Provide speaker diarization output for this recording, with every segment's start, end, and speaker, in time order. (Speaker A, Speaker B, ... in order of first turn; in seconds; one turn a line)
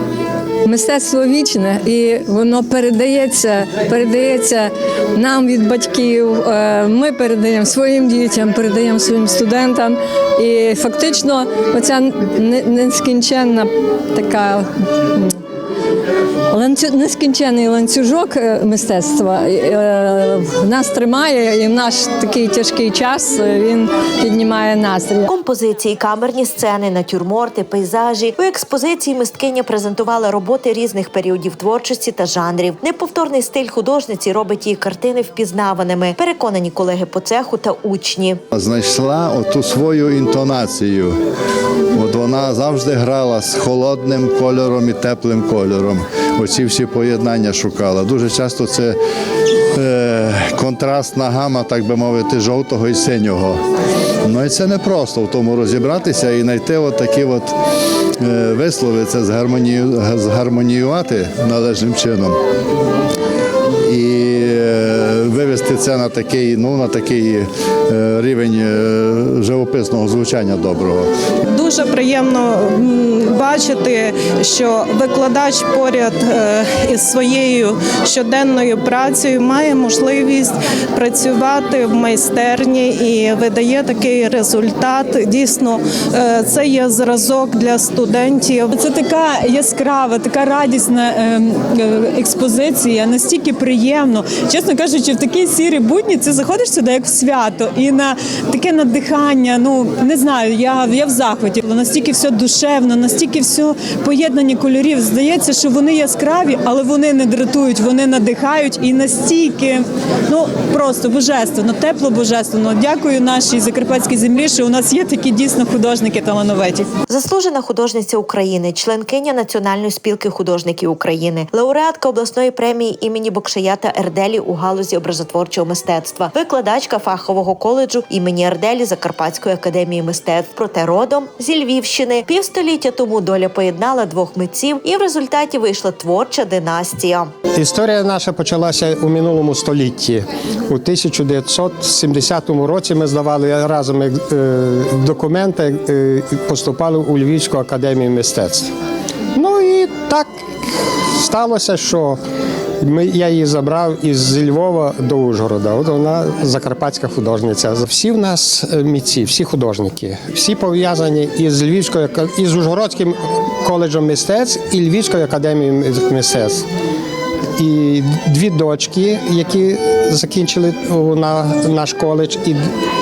Speaker A: 0.7-15.4
Speaker A: 16.5-25.3
Speaker B: 25.3-38.4
Speaker C: 38.5-41.1
Speaker C: 41.9-49.0
Speaker C: 49.8-53.6
Speaker C: 54.2-57.5
Speaker C: 58.2-62.4
Speaker C: 63.9-71.1
Speaker D: 71.5-88.7
Speaker E: 88.7-116.9
Speaker B: 117.1-137.3
Speaker F: 137.6-148.7
Speaker F: 149.3-152.2
Speaker F: 152.8-166.7
Speaker F: 167.6-172.6